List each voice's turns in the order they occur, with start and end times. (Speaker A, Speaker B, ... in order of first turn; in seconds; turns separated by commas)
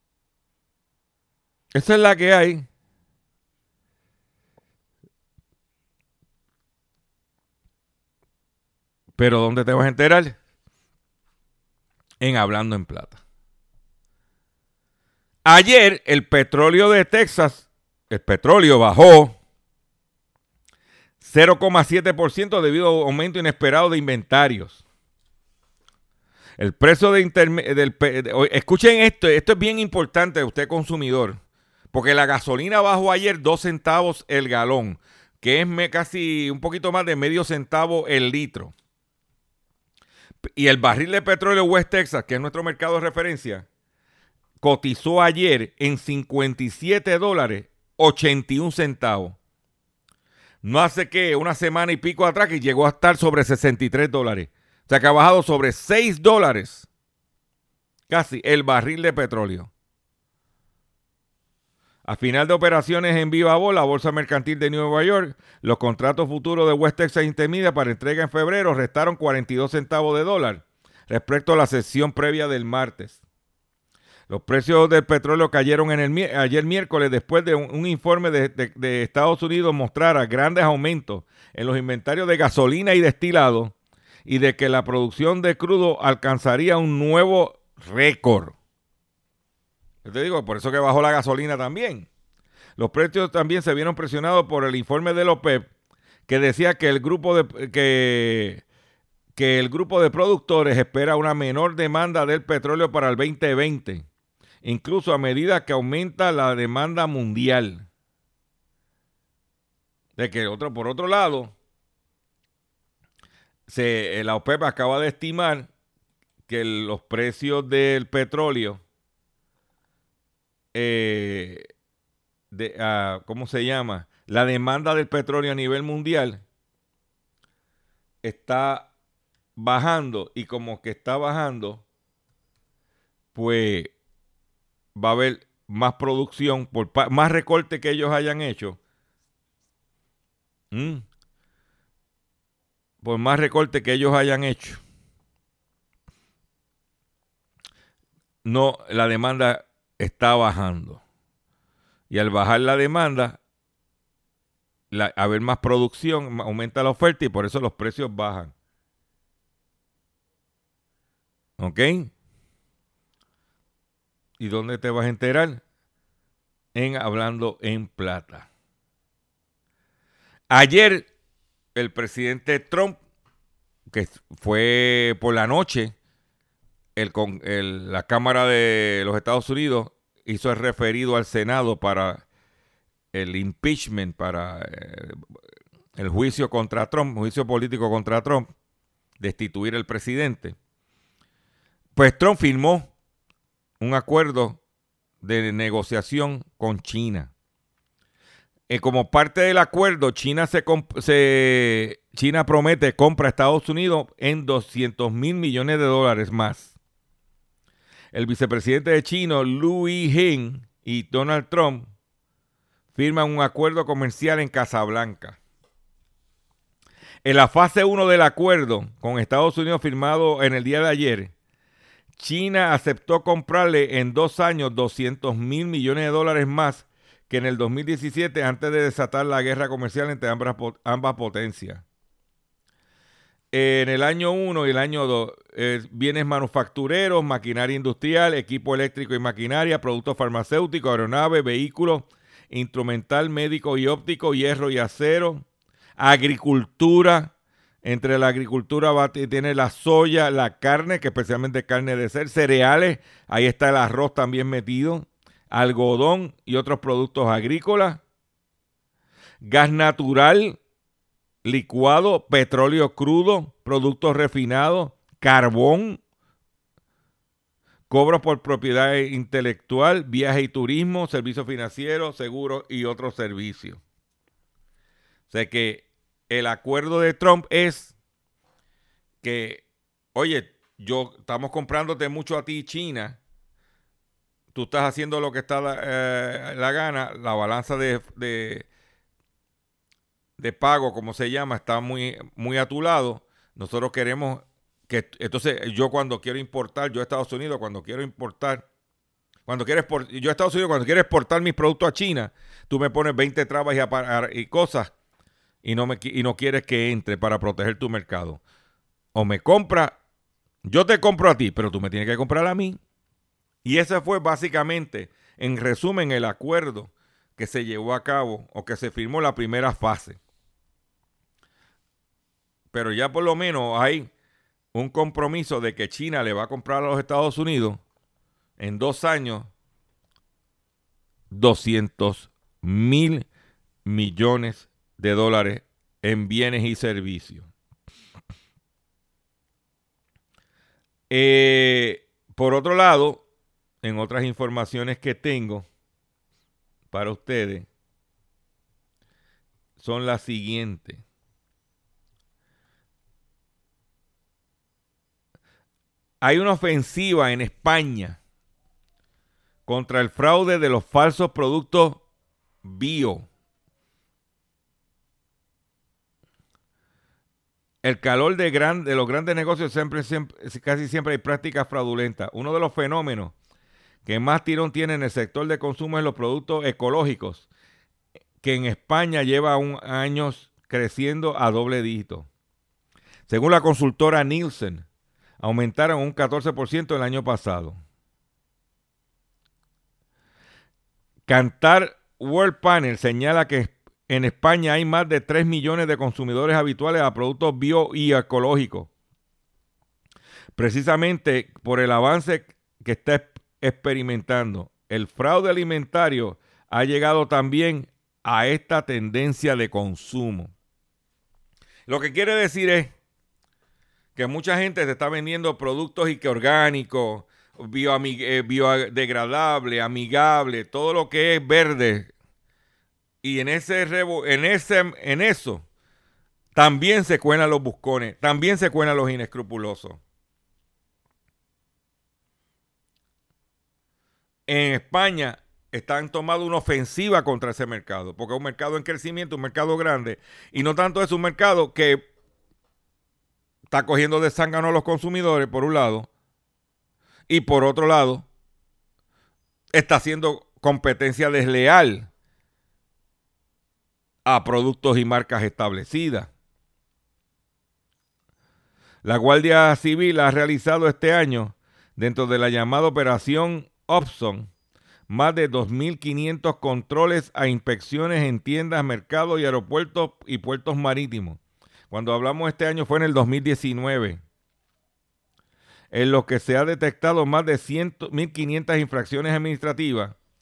Speaker A: 1.7-2.7, Speaker A: 9.2-10.4, Speaker A: 12.2-13.2, Speaker A: 15.4-19.4, Speaker A: 21.2-24.8, Speaker A: 26.6-31.4, Speaker A: 31.9-38.7, Speaker A: 40.6-43.7, Speaker A: 44.6-49.4, Speaker A: 50.6-56.9, Speaker A: 58.1-59.7, Speaker A: 62.0-73.2, Speaker A: 74.3-83.7, Speaker A: 84.3-88.6, Speaker A: 90.0-92.1, Speaker A: 92.8-95.7, Speaker A: 96.3-98.6, Speaker A: 99.4-104.1, Speaker A: 104.6-107.9, Speaker A: 110.2-111.5, Speaker A: 113.7-115.7, Speaker A: 116.5-118.8, Speaker A: 120.7-121.7, Speaker A: 122.5-126.4, Speaker A: 128.2-128.9, Speaker A: 129.6-131.8, Speaker A: 133.3-133.9, Speaker A: 135.0-138.8, Speaker A: 140.7-141.1, Speaker A: 143.0-144.8, Speaker A: 148.4-151.0, Speaker A: 152.1-153.4, Speaker A: 154.9-158.5, Speaker A: 161.6-162.1, Speaker A: 164.4-165.6, Speaker A: 166.8-168.5, Speaker A: 170.5-171.1, Speaker A: 171.8-173.0, Speaker A: 173.9-175.9, Speaker A: 177.0-182.2, Speaker A: 183.1-185.2, Speaker A: 186.0-188.5, Speaker A: 189.2-190.6, Speaker A: 192.0-192.9, Speaker A: 193.8-194.6, Speaker A: 195.2-197.3, Speaker A: 198.7-206.7, Speaker A: 208.1-211.9, Speaker A: 212.9-215.4, Speaker A: 217.2-221.3, Speaker A: 222.2-231.8, Speaker A: 233.5-245.4, Speaker A: 246.0-247.3, Speaker A: 247.8-258.0, Speaker A: 259.4-260.6, Speaker A: 261.4-266.0, Speaker A: 267.9-273.8, Speaker A: 275.3-277.9, Speaker A: 279.2-279.6, Speaker A: 280.1-283.2, Speaker A: 284.5-288.7, Speaker A: 290.4-298.6, Speaker A: 299.5-304.9, Speaker A: 305.6-308.4, Speaker A: 309.1-310.0, Speaker A: 310.6-312.8, Speaker A: 313.6-320.2, Speaker A: 322.7-324.1, Speaker A: 324.7-327.8, Speaker A: 328.6-329.5, Speaker A: 331.3-333.3, Speaker A: 333.9-337.5, Speaker A: 341.1-343.2, Speaker A: 343.8-345.7, Speaker A: 346.9-347.7, Speaker A: 349.8-351.0, Speaker A: 356.2-358.2, Speaker A: 359.7-362.0, Speaker A: 362.6-363.3, Speaker A: 367.8-373.3, Speaker A: 374.1-377.5, Speaker A: 378.4-382.3, Speaker A: 383.3-384.9, Speaker A: 385.4-387.8, Speaker A: 391.3-398.9, Speaker A: 400.6-410.5, Speaker A: 411.9-412.9, Speaker A: 414.2-422.1, Speaker A: 423.2-425.6, Speaker A: 426.6-430.0, Speaker A: 434.5-442.1, Speaker A: 443.7-446.1, Speaker A: 447.3-448.3, Speaker A: 449.7-452.1, Speaker A: 454.3-456.3, Speaker A: 459.0-464.5, Speaker A: 465.1-471.4, Speaker A: 471.9-474.2, Speaker A: 475.9-480.1